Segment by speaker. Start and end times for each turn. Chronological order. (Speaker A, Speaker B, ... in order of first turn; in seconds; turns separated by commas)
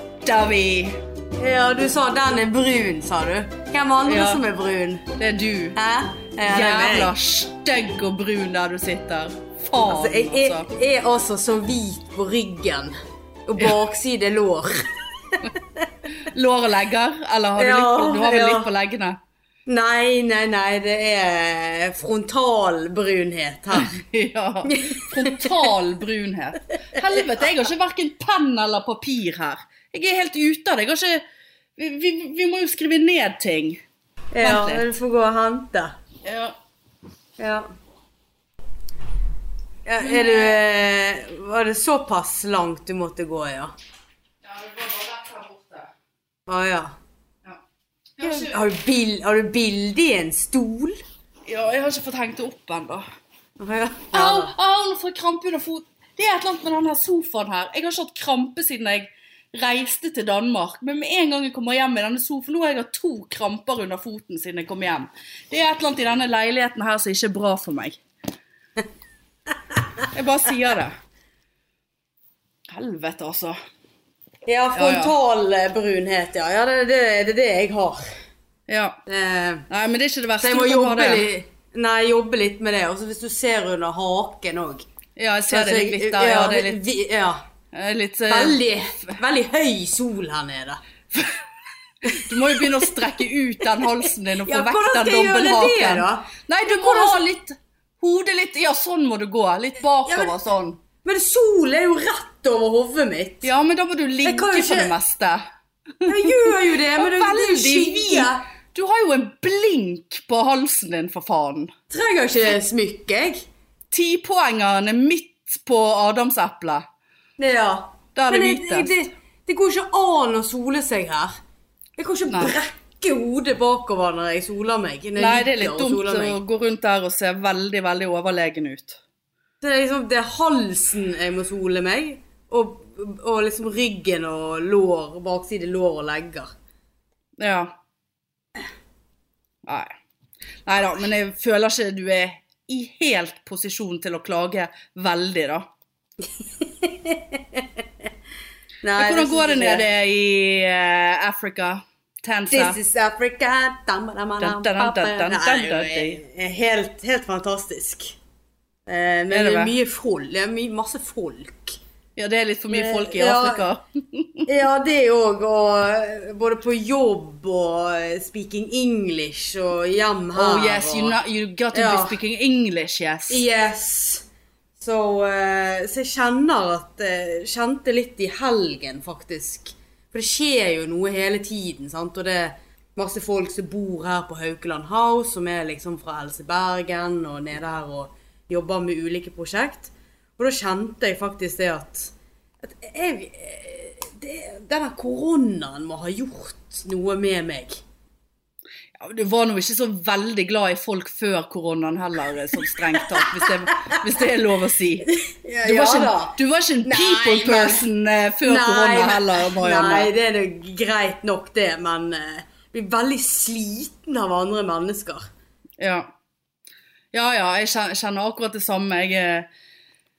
Speaker A: 0.2-1.0, Speaker B: 1.4-5.1, Speaker A: 4.0-4.4, Speaker A: 5.2-5.8, Speaker B: 5.8-7.1, Speaker A: 6.4-10.7, Speaker B: 9.8-15.8, Speaker A: 16.1-19.2, Speaker B: 17.6-18.7, Speaker B: 19.7-24.0, Speaker A: 23.7-31.2, Speaker B: 24.6-25.7, Speaker A: 31.8-33.8, Speaker B: 34.3-36.0, Speaker A: 34.4-34.8, Speaker A: 36.2-36.5, Speaker B: 37.4-37.7, Speaker B: 39.9-43.7, Speaker A: 40.0-40.6, Speaker A: 44.4-45.9, Speaker B: 46.5-47.0, Speaker A: 48.2-48.5, Speaker B: 48.2-51.0, Speaker A: 51.5-53.0, Speaker B: 53.6-54.5, Speaker A: 54.1-68.0, Speaker A: 70.1-71.0, Speaker A: 72.7-73.6, Speaker B: 74.5-78.0, Speaker A: 74.7-75.1, Speaker A: 78.7-79.0, Speaker B: 79.1-79.7, Speaker A: 79.7-81.3, Speaker B: 80.4-84.8, Speaker A: 85.2-86.8, Speaker B: 85.5-87.4, Speaker A: 87.7-89.2, Speaker B: 88.3-90.8, Speaker A: 91.1-91.5, Speaker B: 92.0-93.0, Speaker A: 92.0-100.8, Speaker B: 94.4-97.2, Speaker B: 100.0-100.4, Speaker B: 101.0-103.5, Speaker A: 103.4-105.4, Speaker B: 104.2-105.0, Speaker A: 106.0-111.7, Speaker B: 106.0-108.5, Speaker B: 111.9-113.4, Speaker A: 113.9-116.8, Speaker B: 117.4-121.3, Speaker A: 118.1-118.9, Speaker B: 122.0-126.4, Speaker A: 122.3-122.5, Speaker A: 125.2-129.0, Speaker B: 129.6-136.5, Speaker A: 137.4-137.7, Speaker A: 139.6-139.9, Speaker A: 140.6-145.7, Speaker B: 146.2-147.8, Speaker B: 148.8-149.8, Speaker A: 149.0-152.8, Speaker B: 152.5-158.2, Speaker A: 154.4-156.2, Speaker B: 158.9-161.8, Speaker A: 159.3-159.7, Speaker A: 162.2-164.5, Speaker B: 162.7-163.6, Speaker B: 164.5-171.2, Speaker A: 170.3-173.4, Speaker B: 171.7-172.2, Speaker B: 173.3-174.2, Speaker B: 174.8-197.8, Speaker A: 199.0-205.1, Speaker B: 202.7-203.9, Speaker B: 205.1-207.8, Speaker A: 205.6-210.1, Speaker B: 208.4-215.3, Speaker A: 215.8-216.1, Speaker A: 217.1-219.5